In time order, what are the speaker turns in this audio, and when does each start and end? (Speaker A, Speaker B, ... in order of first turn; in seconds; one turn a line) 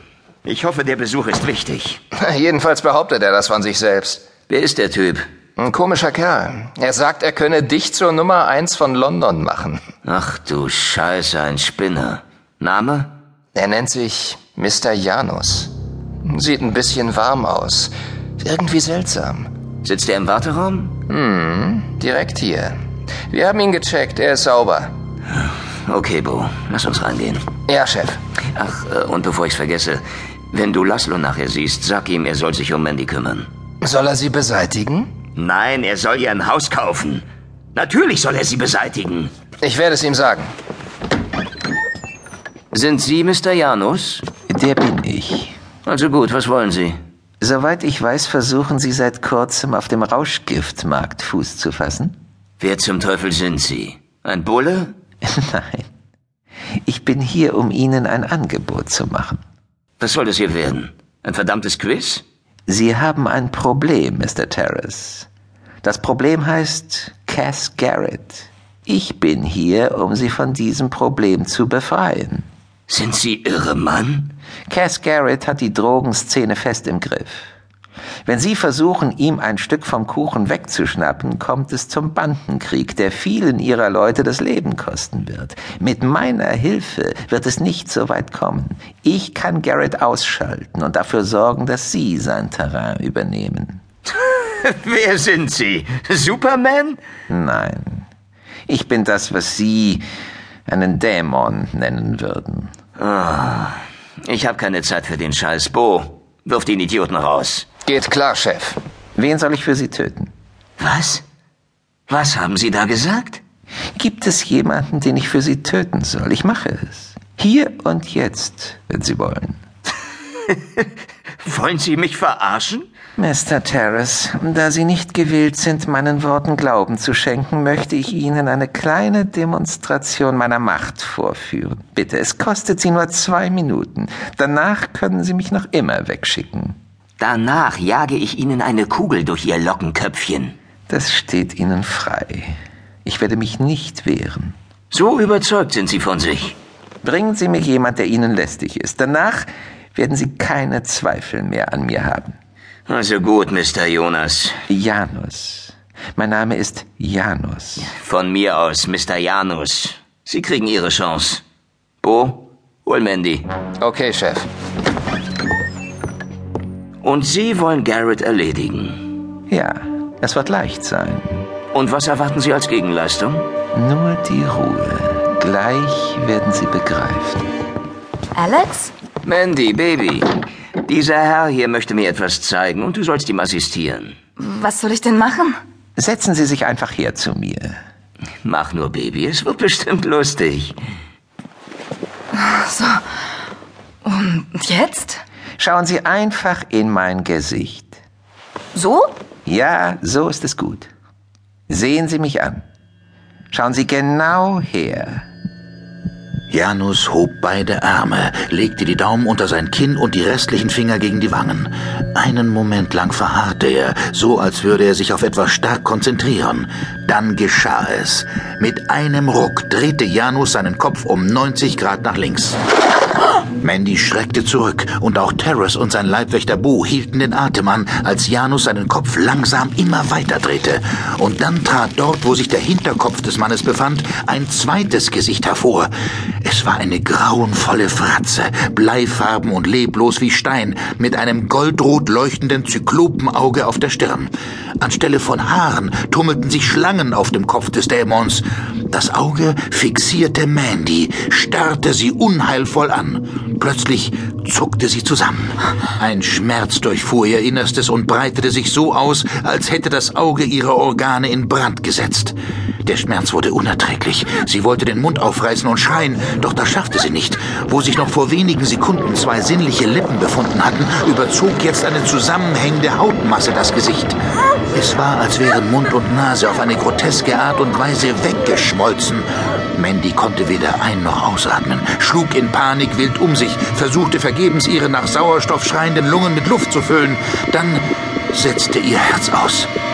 Speaker A: 0.4-2.0
Speaker B: 2.2-4.2
Speaker A: 4.5-5.2
Speaker B: 5.6-9.8
Speaker A: 10.0-13.1
Speaker B: 13.5-15.7
Speaker B: 16.2-19.5
Speaker A: 19.8-20.9
Speaker B: 21.1-22.8
Speaker B: 23.3-24.9
Speaker A: 25.4-27.4
Speaker B: 27.7-28.2
Speaker A: 28.5-33.5
Speaker B: 33.8-35.1
Speaker A: 35.3-39.3
Speaker B: 39.6-40.5
Speaker A: 42.7-44.2
Speaker C: 44.5-45.5
Speaker A: 45.8-47.0
Speaker C: 47.4-52.1
Speaker A: 52.6-54.9
Speaker C: 55.2-55.9
Speaker C: 56.8-59.4
Speaker A: 60.0-62.2
Speaker C: 62.7-65.3
Speaker C: 65.8-72.5
Speaker A: 72.9-74.3
Speaker C: 74.7-77.5
Speaker C: 78.2-93.8
Speaker A: 94.2-97.0
Speaker C: 97.3-98.0
Speaker C: 98.7-100.0
Speaker C: 100.7-102.7
Speaker A: 103.0-107.7
Speaker B: 107.8-108.8
Speaker C: 109.2-110.3
Speaker A: 110.8-111.2
Speaker A: 112.1-113.4
Speaker C: 114.0-119.6
Speaker A: 121.4-122.9
Speaker C: 123.2-136.8
Speaker A: 137.2-140.6
Speaker C: 140.9-144.6
Speaker A: 144.9-146.6
Speaker C: 147.0-152.4
Speaker A: 152.9-154.6
Speaker C: 154.7-157.9
Speaker A: 157.8-161.4
Speaker A: 162.0-163.5
Speaker B: 163.8-164.5
Speaker A: 167.0-169.0
Speaker C: 169.5-171.5
Speaker A: 171.7-173.5
Speaker C: 173.7-177.4
Speaker D: 178.3-178.9
Speaker A: 179.2-180.3
Speaker A: 180.8-184.2
Speaker D: 184.4-185.6
Speaker C: 186.0-187.8
Speaker A: 188.4-190.8
Speaker D: 192.4-193.0
Speaker D: 194.0-195.2
Speaker C: 195.6-198.0
Speaker D: 198.7-199.1
Speaker C: 199.4-200.9
Speaker C: 201.7-202.6
Speaker C: 203.5-205.2
Speaker E: 206.5-222.6
Speaker E: 223.6-235.9
Speaker E: 236.4-274.2
Speaker E: 274.7-289.7